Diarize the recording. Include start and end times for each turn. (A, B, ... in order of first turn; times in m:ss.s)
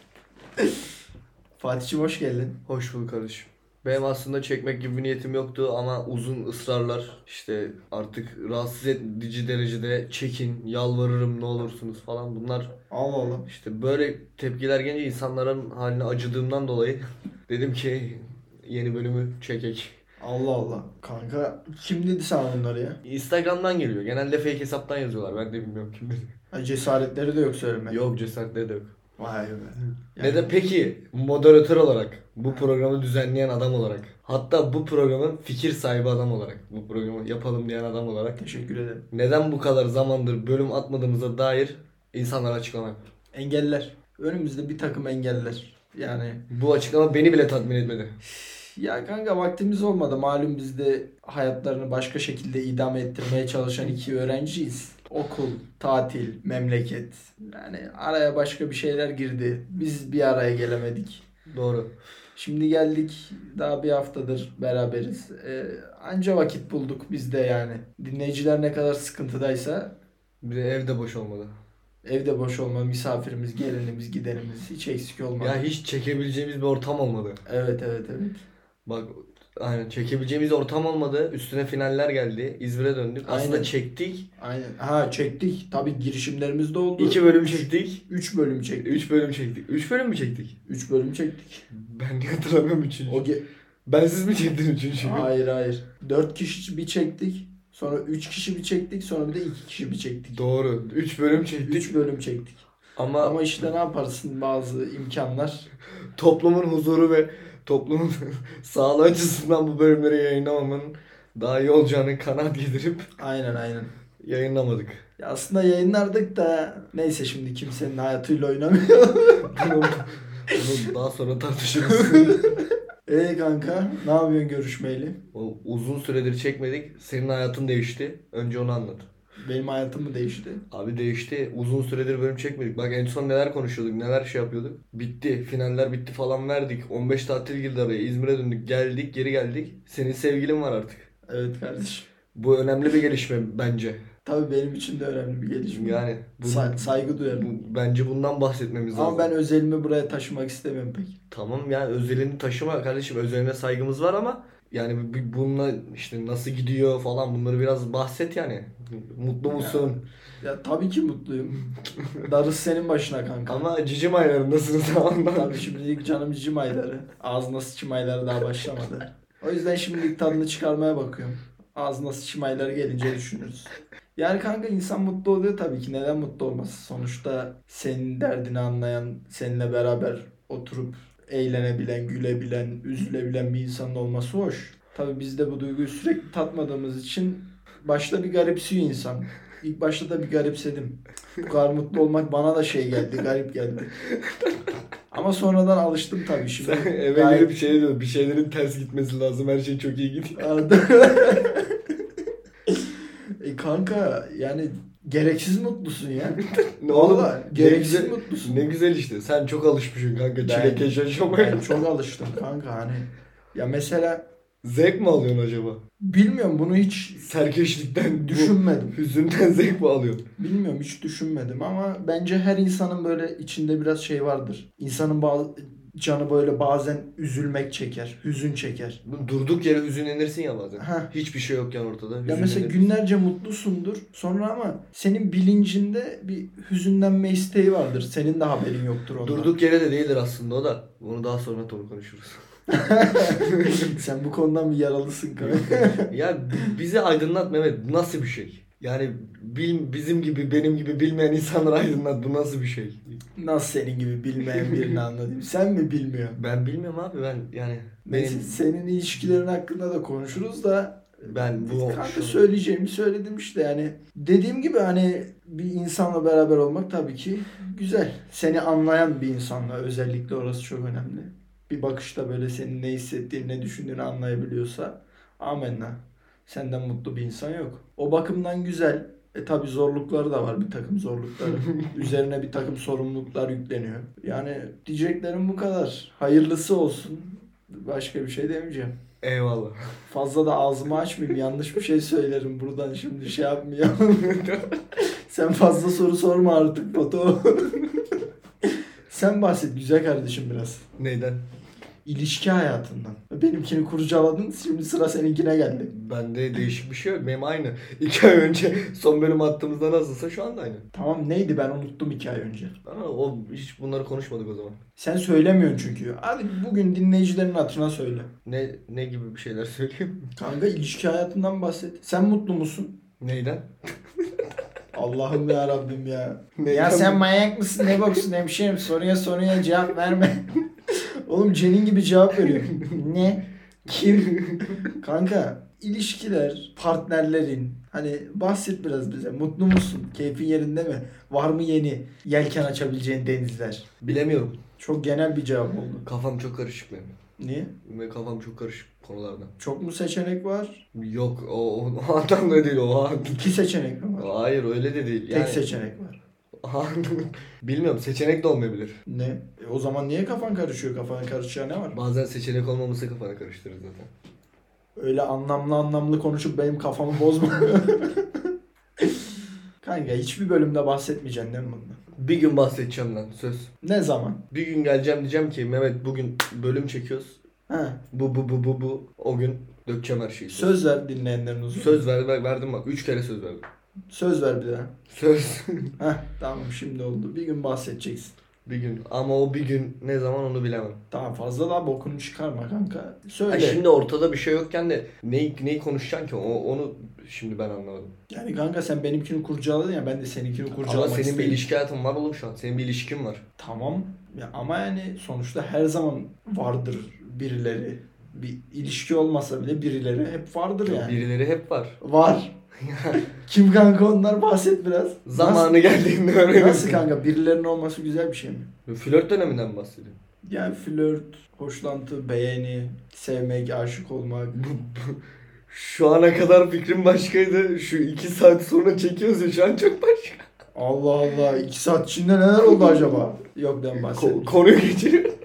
0:01.6-0:02.6 A
0:02.7-0:12.7 B
0:12.9-0:13.5 A
0:13.5-0:20.0 B
0:20.2-0:23.0 A
0:23.0-0:26.3 B
0:26.5-0:28.0 A
0:27.9-0:28.9 B
0:29.2-0:30.6 A
0:30.2-0:38.4 B
0:38.4-0:39.0 A
0:39.1-0:43.0 B
0:43.3-0:46.4 A
0:46.5-0:48.2 B
0:48.8-1:01.2 A
1:01.5-1:01.9 B
1:02.4-1:09.9 A
1:10.4-1:11.6 B
1:12.0-1:15.7 A
1:15.4-1:17.4 B
1:17.5-1:18.4 A
1:18.9-1:24.2 B
1:23.3-1:23.7 A
1:24.4-1:28.9 A
1:27.0-1:28.0 B
1:28.8-1:30.6 B
1:30.7-1:31.6 A
1:31.7-1:33.3 B
1:33.1-1:33.4 A
1:33.9-1:35.3 B
1:35.0-1:40.4 A
1:40.3-1:41.9 B
1:41.6-1:42.6 A
1:43.0-1:43.4 B
1:43.2-1:45.7 A
1:46.2-1:53.1 B
1:53.2-1:53.9 A
1:54.2-1:55.0 B
1:55.2-1:59.9 A
1:59.5-2:02.6 B
2:01.8-2:05.2 A
2:05.3-2:09.1 B
2:09.4-2:10.6 A
2:10.7-2:21.1 B
2:21.3-2:22.1 A
2:22.3-2:24.0 B
2:24.2-2:27.5 A
2:25.7-2:29.3 B
2:28.9-2:31.1 A
2:31.3-2:40.0 B
2:39.5-2:43.6 A
2:43.5-2:45.7 B
2:45.3-3:13.9 A
3:14.1-3:14.7 B
3:15.1-3:17.6 A
3:16.6-3:20.5 B
3:20.4-3:21.9 A
3:22.7-3:28.6 A
3:26.4-3:31.8 B
3:30.4-3:34.2 A
3:34.6-3:35.8 B
3:36.0-3:37.3 A
3:37.2-3:40.2 B
3:38.2-3:39.0 A
3:40.4-3:49.0 A
3:49.1-3:52.9 B
3:50.8-3:51.1 A
3:52.3-3:59.5 A
3:59.2-4:02.4 B
4:02.7-4:06.7 A
4:03.3-4:04.0 B
4:05.4-4:13.2 B
4:13.4-4:16.4 A
4:14.6-4:15.0 B
4:16.4-4:18.6 B
4:18.1-4:48.9 A
4:21.2-4:22.4 B
4:41.4-4:42.1 B
4:49.2-4:49.8 B
4:50.1-4:58.0 A
4:54.2-4:54.8 B
4:58.6-5:00.8 A
5:01.0-5:01.4 B
5:02.1-5:05.9 A
5:05.9-5:10.8 B
5:10.9-5:12.7 A
5:12.9-5:14.8 B
5:15.0-5:18.3 A
5:18.4-5:20.3 B
5:20.4-5:23.0 A
5:23.2-5:24.5 B
5:24.9-5:33.4 A
5:26.6-5:27.2 B
5:27.8-5:28.1 B
5:32.4-5:33.0 B
5:33.9-5:34.9 B
5:34.9-5:43.9 A
5:44.0-5:44.6 B
5:44.8-5:46.0 A
5:46.0-5:47.1 B
5:47.4-5:47.7 A
5:47.8-5:49.5 B
5:49.6-5:50.8 A
5:50.9-5:53.6 B
5:53.3-5:54.3 A
5:54.2-5:55.6 B
5:55.3-5:56.2 A
5:56.6-5:59.0 B
5:59.1-6:02.0 A
6:01.9-6:04.1 B
6:05.0-6:08.4 A
6:09.0-6:09.3 A
6:09.8-6:12.0 A
6:12.2-6:13.7 B
6:13.8-6:14.4 A
6:14.5-6:17.4 B
6:17.7-6:18.0 A
6:18.1-6:20.8 B
6:20.5-6:22.0 A
6:21.7-6:23.6 B
6:24.1-6:24.9 A
6:25.1-6:26.0 B
6:26.0-6:28.3 A
6:28.7-6:31.0 B
6:31.1-6:33.8 A
6:33.5-6:38.1 B
6:38.3-6:41.7 A
6:40.8-6:43.4 B
6:43.6-6:51.2 A
6:50.8-6:52.0 B
6:52.0-6:52.6 A
6:52.8-6:53.2 B
6:53.2-6:55.7 A
6:55.3-6:57.0 B
6:56.5-6:58.7 A
6:58.9-7:00.2 B
7:00.4-7:04.6 A
7:04.6-7:10.5 B
7:10.8-7:14.5 A
7:12.6-7:13.2 B
7:14.0-7:15.3 B